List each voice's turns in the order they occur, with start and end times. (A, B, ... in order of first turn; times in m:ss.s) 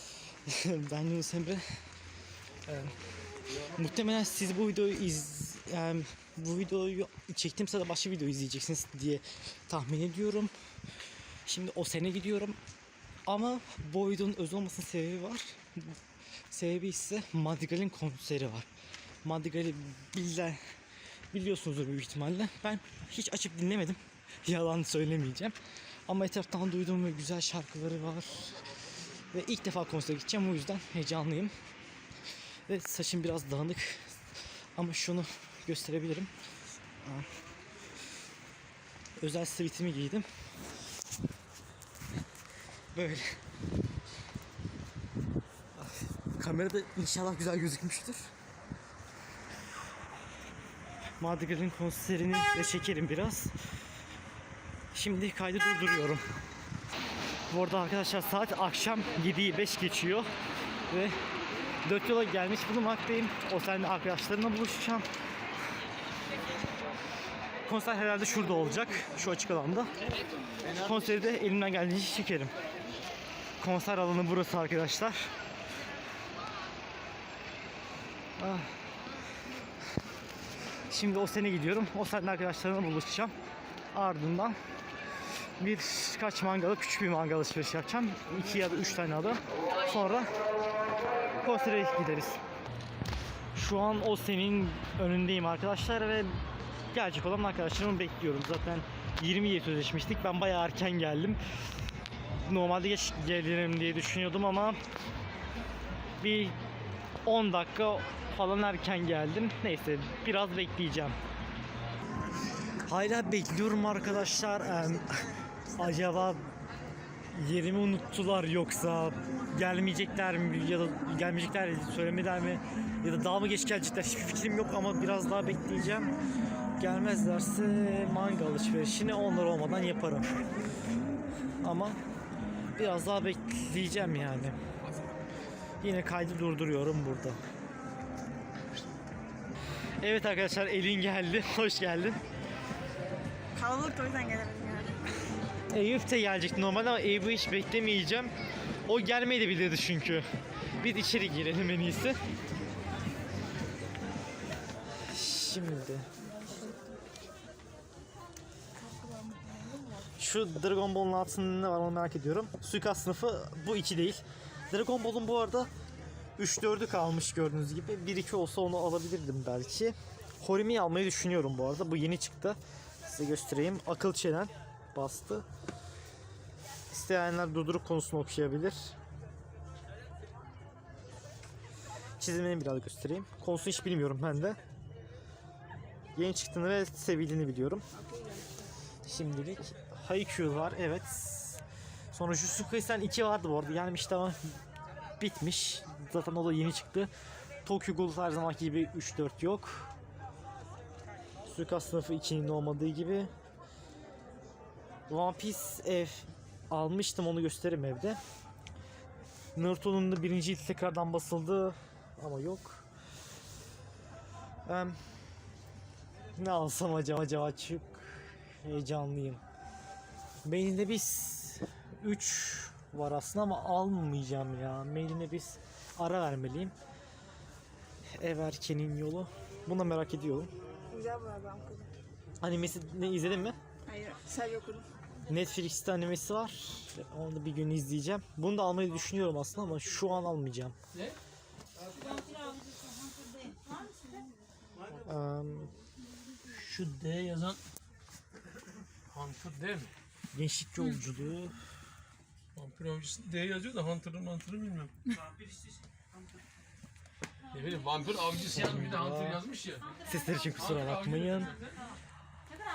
0:00.4-0:01.6 A
0:02.6-0:02.9 A
0:03.7-0:10.5 A
0:11.4-0:12.6 A
0:13.2-0:16.0 A
0:16.5-0:18.7 A
0:19.2-0:20.6 A
0:21.3-0:25.6 A
0:26.1-0:28.5 A
0:29.3-0:31.5 A
0:32.7-0:34.1 A
0:34.8-0:36.3 A
0:37.0-0:37.3 A
0:39.2-0:40.3 A
0:42.9-0:43.4 A
0:45.8-0:48.3 A
0:51.2-0:53.5 A
0:54.9-0:56.2 A
0:57.5-1:00.3 A
1:00.9-1:01.2 A
1:01.8-1:05.0 A
1:07.6-1:09.9 A
1:10.7-1:12.5 A
1:13.6-1:15.3 A
1:18.4-1:18.7 A
1:20.9-1:23.3 A
1:23.9-1:24.6 A
1:25.6-1:30.3 A
1:31.4-1:32.4 A
1:33.5-1:36.4 A
1:36.9-1:41.4 A
1:42.4-1:44.8 A
1:46.2-1:46.6 A
1:47.2-1:51.2 A
1:52.9-1:55.2 A
1:55.8-1:56.5 A
1:57.3-2:06.1 A
2:06.8-2:10.4 A
2:11.6-2:12.0 A
2:12.7-2:14.6 A
2:15.8-2:17.4 A
2:20.0-2:22.2 A
2:23.6-2:25.0 B
2:25.7-2:28.3 A
2:28.9-2:30.2 A
2:30.8-2:32.2 A
2:35.1-2:36.1 A
2:36.2-2:37.0 B
2:38.8-2:40.1 B
2:40.2-2:45.7 A
2:46.4-2:55.4 A
2:56.9-2:58.9 A
3:02.2-3:04.6 A
3:06.1-3:07.8 A
3:07.9-3:08.7 B
3:09.0-3:14.5 A
3:15.2-3:17.1 A
3:17.6-3:19.9 A
3:21.4-3:23.3 A
3:25.1-3:28.2 A
3:29.5-3:32.8 A
3:34.6-3:35.0 A
3:36.4-3:39.4 A
3:40.4-3:46.7 A
3:48.1-3:50.5 A
3:50.9-3:51.9 B
3:52.4-3:53.6 A
3:53.8-3:54.9 B
3:55.3-4:00.8 A
4:05.0-4:05.7 A
4:06.6-4:07.2 A
4:06.9-4:07.6 C
4:09.1-4:09.9 C
4:10.3-4:11.6 A
4:12.5-4:15.1 C
4:17.5-4:20.0 C
4:18.6-4:19.4 A
4:20.0-4:21.5 A
4:20.6-4:21.8 C